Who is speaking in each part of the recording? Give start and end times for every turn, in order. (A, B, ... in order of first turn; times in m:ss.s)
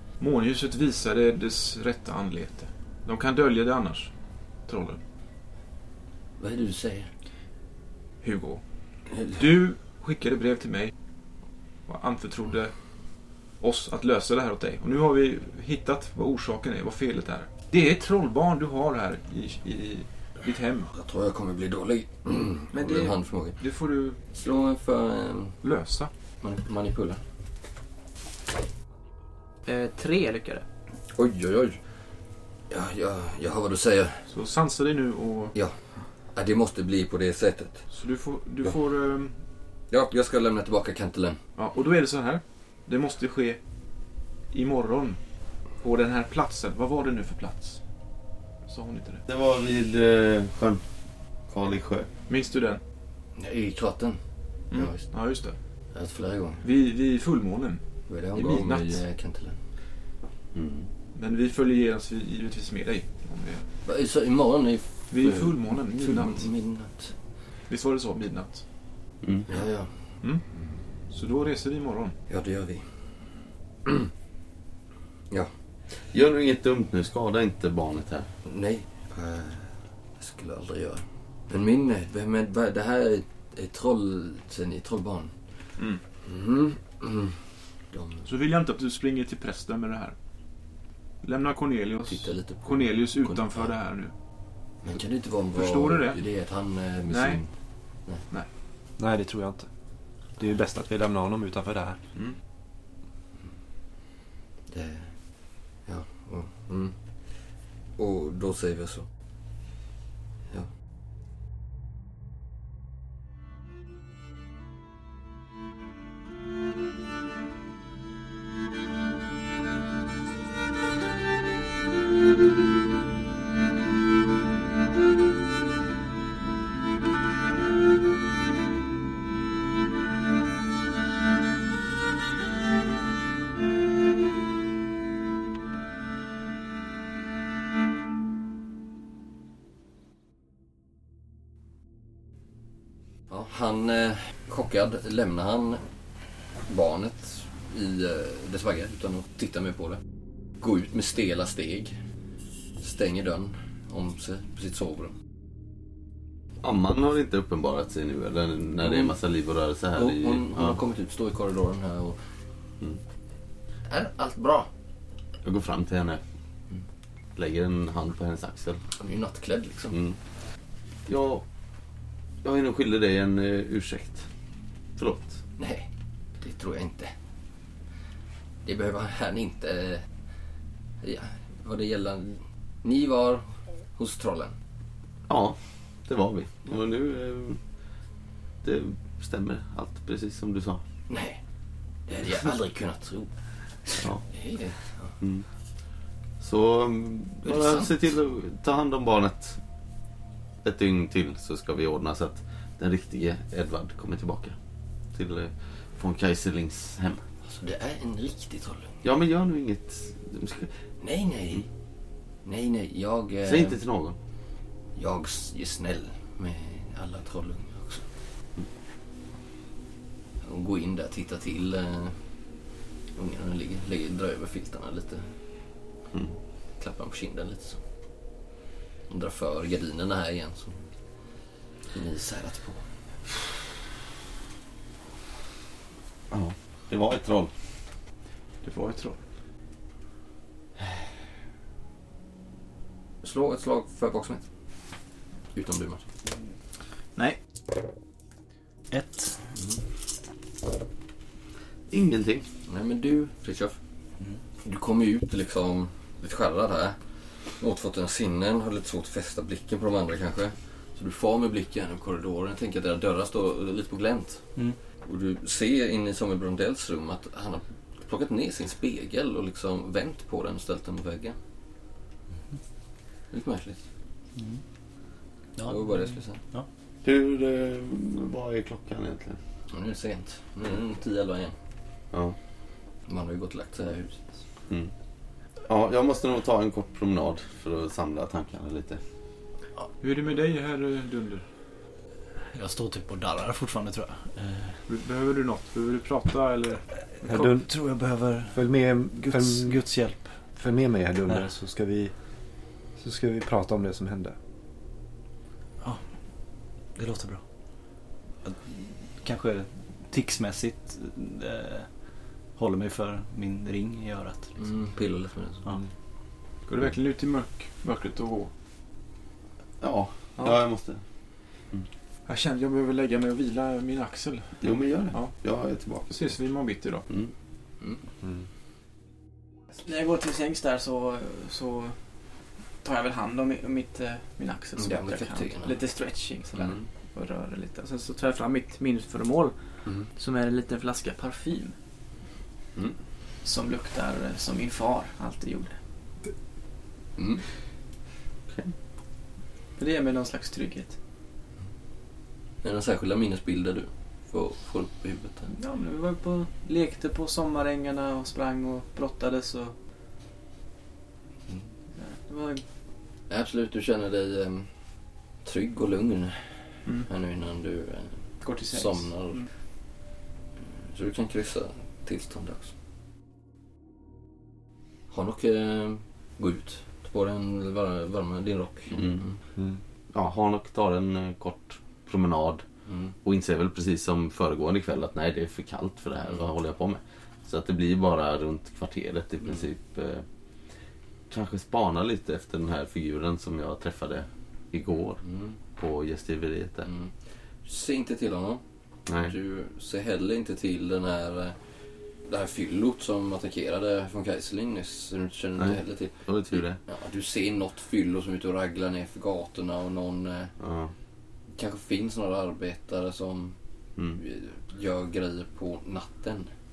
0:00.2-0:04.1 A
0:04.7-0:05.0 A
0:06.4-0:07.1 B
0:08.2-0:08.6 A
0:09.1-0:09.4 B
0:09.3-0:10.9 A
0:11.9-0:12.7 A
0:13.6-0:20.9 A
0:20.9-0:23.6 B
0:22.7-0:23.1 C
0:23.6-0:24.2 A
0:24.3-0:25.6 B
0:25.6-0:26.1 A
0:26.4-0:27.2 B
0:29.7-0:30.6 C
0:31.1-0:31.8 B
0:32.7-0:34.2 B
0:34.3-0:35.5 A
0:36.3-0:37.8 B
0:37.9-0:39.4 A
0:39.9-0:41.4 B
0:41.6-0:43.6 A
0:44.5-0:45.2 A
0:45.8-0:47.8 A
0:48.7-0:49.2 A
0:49.3-0:50.8 D
0:51.5-0:52.1 D
0:52.3-0:52.8 A
0:53.4-0:54.2 B
0:54.7-0:55.6 A
0:54.7-0:55.1 B
0:55.9-0:56.6 B
0:56.6-0:57.8 A
0:58.1-0:59.6 B
0:58.3-0:59.0 A
1:00.5-1:00.9 D
1:01.1-1:03.6 A
1:03.8-1:07.1 B
1:05.1-1:06.5 A
1:07.7-1:08.6 A
1:09.2-1:09.5 D
1:09.5-1:09.9 B
1:11.1-1:12.1 A
1:12.3-1:12.9 B
1:16.1-1:18.3 D
1:18.4-1:25.3 B
1:26.2-1:27.4 B
1:27.9-1:28.3 B
1:28.2-1:30.2 A
1:31.2-1:34.1 A
1:32.1-1:33.7 B
1:34.8-1:37.5 B
1:35.5-1:36.2 A
1:37.1-1:37.4 A
1:39.0-1:39.7 E
1:40.4-1:42.0 E
1:44.7-1:45.1 B
1:45.8-1:46.9 B
1:48.0-1:49.1 B
2:23.3-2:25.8 B
2:26.7-2:30.0 B
2:30.6-2:32.0 B
2:32.8-2:35.1 B
2:36.6-2:40.8 D
2:38.8-2:39.2 B
2:39.9-2:42.2 B
2:43.9-2:44.7 B
2:45.4-2:46.2 D
2:47.4-2:48.8 D
2:49.0-2:50.0 B
2:49.9-2:50.2 D
2:51.1-2:51.4 D
2:52.4-2:54.2 D
2:55.0-2:55.4 D
2:55.6-2:55.9 B
2:56.4-2:57.1 B
2:58.6-3:00.0 B
3:01.0-3:04.5 B
3:05.3-3:07.6 D
3:08.6-3:10.8 D
3:11.1-3:11.4 B
3:12.1-3:13.3 B
3:13.8-3:15.2 B
3:14.0-3:14.2 D
3:15.2-3:15.4 D
3:16.4-3:19.6 D
3:17.4-3:17.9 B
3:20.6-3:24.5 D
3:25.1-3:27.2 D
3:27.4-3:29.0 B
3:29.0-3:30.7 D
3:31.0-3:31.7 B
3:32.4-3:33.8 B
3:33.4-3:34.2 D
3:35.0-3:38.0 B
3:40.4-3:42.2 B
3:43.2-3:45.3 B
3:46.8-3:47.8 B
3:49.1-3:50.8 B
3:51.9-3:52.8 B
3:56.3-3:57.5 D
3:58.6-3:59.2 A
4:03.2-4:04.4 B
4:05.5-4:06.0 B
4:08.9-4:09.4 F
4:11.9-4:12.4 D
4:12.7-4:13.8 B
4:14.6-4:17.0 B
4:17.6-4:24.4 B
4:25.0-4:31.4 B
4:33.3-4:33.8 B
4:34.4-4:34.6 F
4:35.6-4:36.7 F
4:35.6-4:36.4 B
4:37.0-4:39.4 D
4:39.7-4:41.5 B
4:43.1-4:44.2 B
4:45.6-4:49.0 D
4:50.0-4:51.4 A
4:52.5-4:54.8 F
4:54.9-4:56.8 A
4:57.2-5:00.3 F
4:57.2-4:57.7 E
4:58.5-4:59.8 E
5:00.6-5:02.1 E
5:03.0-5:04.4 E
5:06.9-5:07.4 F
5:08.4-5:11.9 F
5:12.6-5:14.6 F
5:14.6-5:15.6 B
5:16.7-5:18.5 A
5:19.8-5:21.0 D
5:22.3-5:24.6 A
5:24.6-5:26.1 D
5:25.1-5:25.4 A
5:26.1-5:27.1 A
5:29.8-5:32.0 C
5:32.8-5:41.7 C
5:34.8-5:35.7 B
5:43.4-5:45.8 C
5:47.2-5:47.4 B
5:49.8-5:51.0 C
5:52.6-5:55.5 B
5:55.5-5:59.7 C
6:02.0-6:02.6 C
6:03.3-6:04.7 B
6:05.4-6:06.4 B
6:07.0-6:09.5 B
6:08.4-6:09.4 C
6:10.8-6:12.7 B
6:15.1-6:19.4 B
6:18.9-6:19.2 D
6:20.1-6:22.6 D
6:22.9-6:23.1 B
6:23.2-6:30.2 D
6:31.3-6:35.2 D
6:35.2-6:35.6 B
6:35.8-6:36.9 D
6:36.8-6:37.1 B
6:37.6-6:38.6 B
6:39.1-6:39.3 D
6:39.2-6:41.6 B
6:42.3-6:50.5 B
6:45.6-6:46.8 D
6:50.6-6:50.9 D
6:51.5-6:53.6 B
6:54.1-6:56.5 B